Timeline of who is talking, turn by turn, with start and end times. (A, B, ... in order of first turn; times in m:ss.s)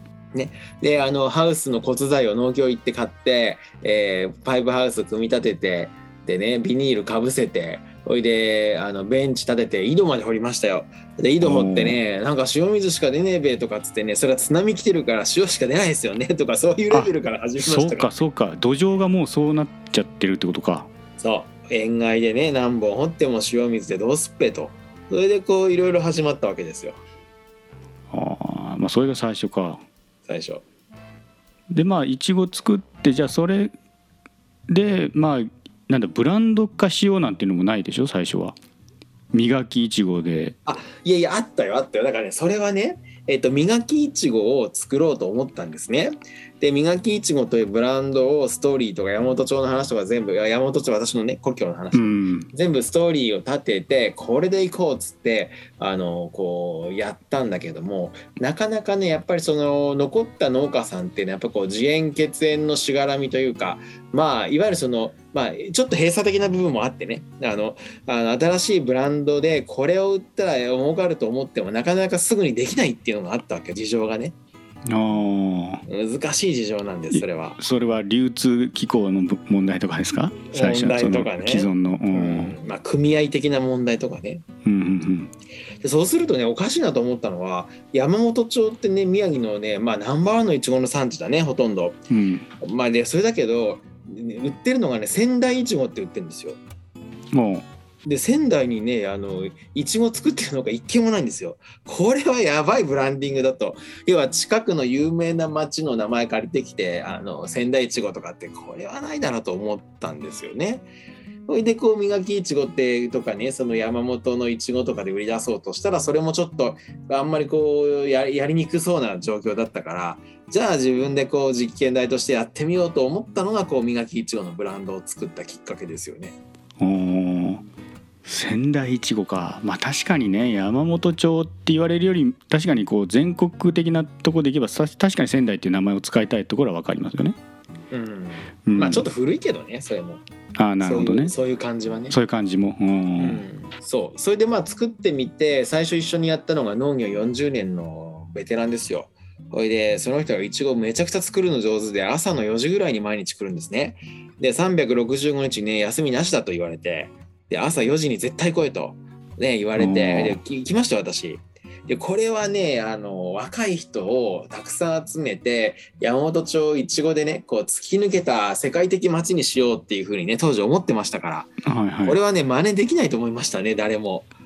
0:00.3-0:18.1 A
0:11.4-0:12.0 B
0:16.9-0:20.9 B
0:21.2-0:27.0 A
0:28.1-0:29.8 B
0:30.3-0:30.6 A
0:31.7-0:33.7 B
0:34.7-0:38.6 B
0:39.3-0:40.6 B
0:40.7-1:14.4 A
0:51.9-0:52.5 B
1:14.9-1:15.8 B
1:15.9-1:17.6 A
1:17.1-1:22.6 B
1:20.5-1:24.4 A
1:24.6-1:25.3 B
1:25.8-1:32.0 A
1:32.1-1:32.5 B
1:32.6-1:36.6 A
1:37.3-1:37.7 B
1:38.0-1:50.9 A
1:51.5-2:06.4 A
2:06.8-2:07.6 B
2:08.2-2:17.4 B
2:17.9-2:20.2 A
2:18.7-2:19.1 B
2:20.6-2:21.4 B
2:20.8-2:22.2 A
2:22.1-2:23.4 B
2:23.2-2:51.5 A
2:39.8-2:40.4 B
2:51.6-2:52.2 B
2:52.0-2:54.3 A